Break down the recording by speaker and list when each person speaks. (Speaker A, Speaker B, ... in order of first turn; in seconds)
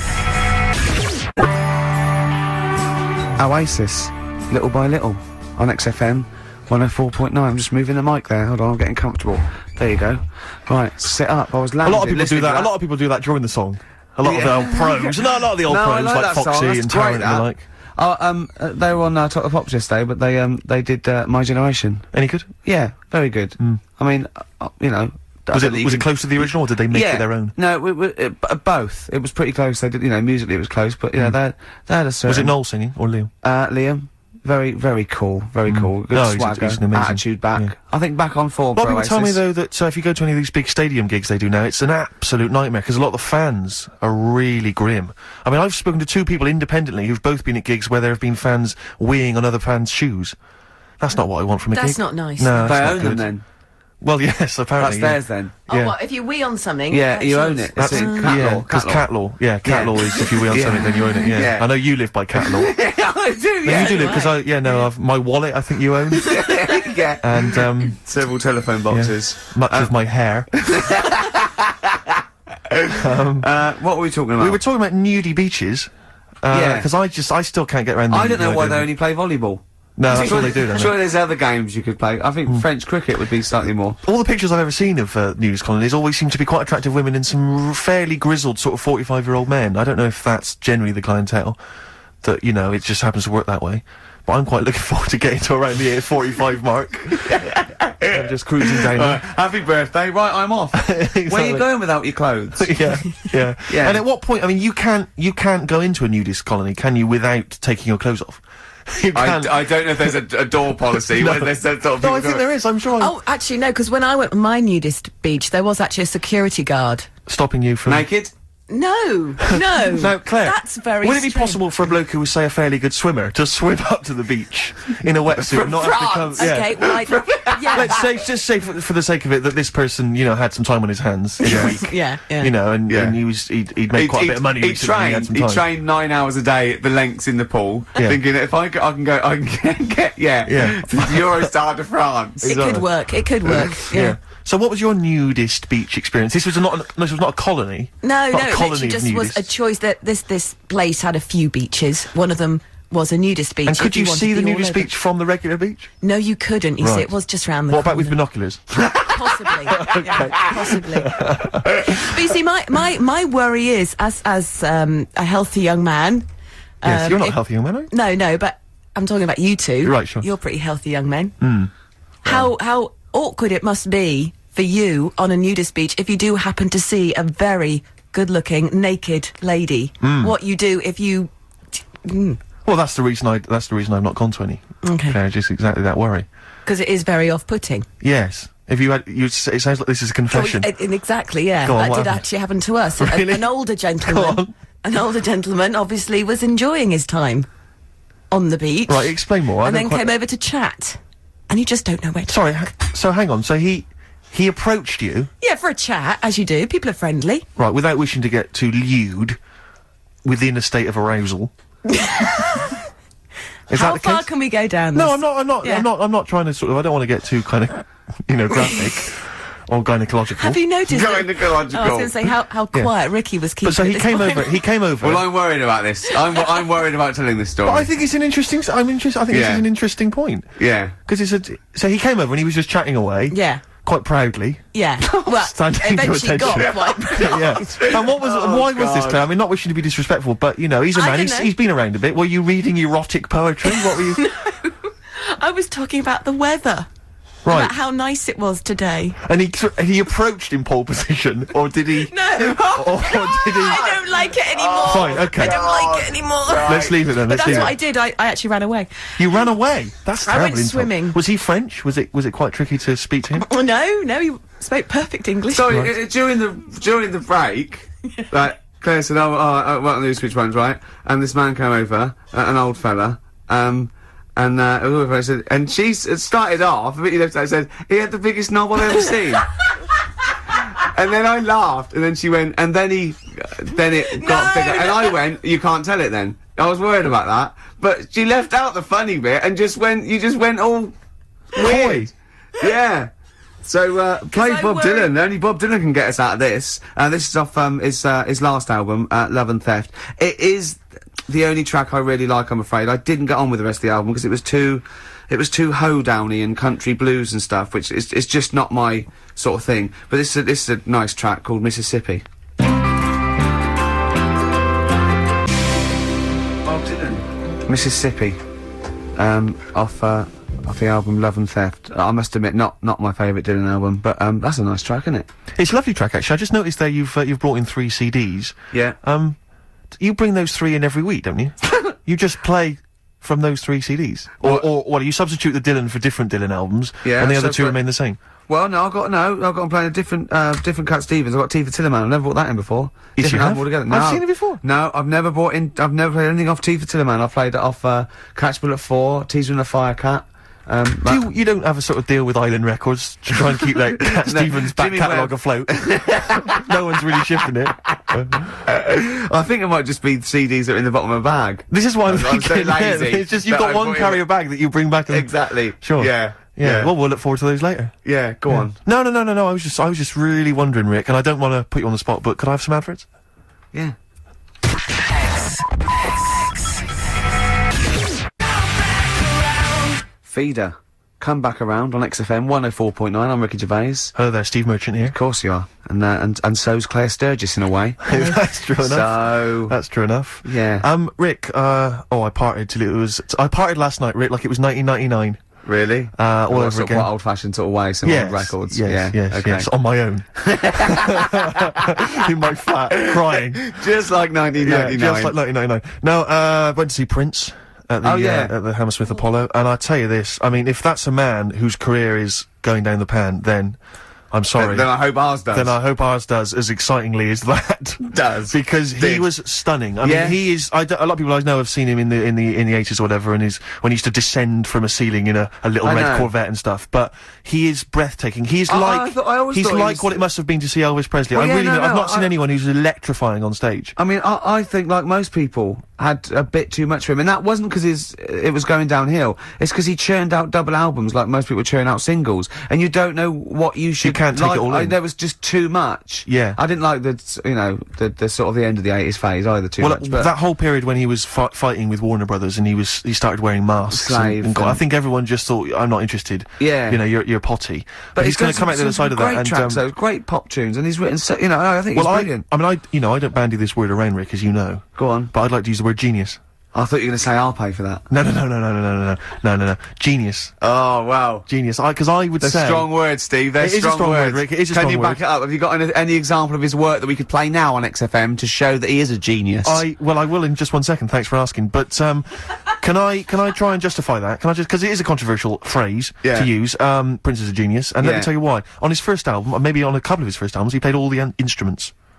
Speaker A: 3.4-12.7, 14.2-22.1, 22.6-32.5, 33.4-39.4, 52.6-53.4, 54.8-55.5, 56.9-59.0, 59.6-61.7, 62.3-64.3, 66.2-69.9, 70.5-74.6, 76.5-76.9, 78.1-84.0, 97.2-102.8, 103.7-104.0, 109.1-112.4, 117.8-118.3, 125.3-128.1, 131.4-131.8, 132.9-133.2, 133.9-142.7, 220.9-222.1, 225.0-227.9, 229.3-229.6, 230.6-230.9, 236.4-239.2, 253.7-257.7, 265.5-279.5, 280.7-290.9, 291.5-293.1, 293.6-312.2, 316.6-318.4, 319.1-325.3, 328.7-329.0, 337.0-337.8, 338.5-351.2, 353.5-357.2, 358.1-364.2, 365.1-366.9, 368.0-368.8, 380.2-384.1, 385.1-389.7, 390.4-390.9, 395.6-399.7, 400.4-402.3, 402.9-405.3, 408.0-408.5, 414.6-415.7, 418.1-419.3, 420.0-420.4, 425.8-426.3, 428.7-430.2, 431.3-432.3, 433.9-450.3, 453.9-454.8, 456.6-457.0, 458.1-462.4, 465.0-465.3, 466.7-468.0, 470.6-471.4, 472.4-479.8, 486.2-486.5, 488.0-488.3
Speaker B: 11.8-17.6, 22.1-22.5, 25.5-27.5, 32.2-33.3, 35.7-37.7, 38.7-50.4, 51.0-53.3, 54.0-55.9, 57.8-62.8, 63.6-68.0, 68.9-70.5, 72.9-73.5, 74.4-75.9, 76.4-78.9, 80.0-81.0, 84.0-91.6, 92.2-97.4, 98.1-99.2, 100.7-101.7, 102.6-110.2, 111.0-113.1, 117.3-118.0, 119.5-126.9, 127.7-135.6, 140.4-141.4, 142.4-142.8, 143.5-149.5, 153.7-155.9, 156.8-157.1, 157.7-159.1, 159.7-161.9, 166.8-167.9, 169.8-170.2, 171.4-171.7, 180.0-180.3, 182.6-186.2, 188.0-190.7, 191.6-192.2, 193.0-193.5, 194.0-194.5, 198.9-200.1, 202.3-205.3, 207.6-209.4, 210.2-211.5, 213.7-214.3, 214.9-220.6, 223.6-225.2, 227.6-230.5, 231.1-244.2, 247.4-247.7, 249.2-253.9, 254.8-255.6, 256.6-257.7, 259.2-263.4, 291.6-292.1, 325.6-329.4, 329.9-338.2, 343.2-344.6, 351.0-358.6, 361.7-367.9, 368.5-373.1, 384.1-385.2, 388.0-395.4, 396.1-397.1, 398.0-403.8, 404.6-413.8, 414.3-414.9, 415.5-433.9, 444.0-445.0, 446.3-446.6, 449.8-459.8, 461.9-466.4, 468.1-470.5, 471.5-472.9, 473.6-475.2, 479.6-491.9
Speaker C: 51.7-52.8, 55.7-58.4, 63.8-64.3, 113.0-117.1, 118.7-121.6, 126.4-128.0, 131.4-132.5, 142.4-144.2, 148.0-154.9, 156.0-158.2, 159.0-166.2, 166.8-167.4, 167.9-171.4, 172.2-181.3, 182.0-182.4, 184.8-185.2, 186.7-187.9, 190.3-197.5, 198.3-202.5, 205.4-207.4, 211.9-212.8, 213.7-215.9, 220.4-224.6, 233.3-233.6, 234.7-237.6, 240.9-241.5, 243.7-246.9, 247.5-249.2, 252.0-259.1, 260.2-261.2, 263.4-265.9, 284.2-285.1, 294.3-295.1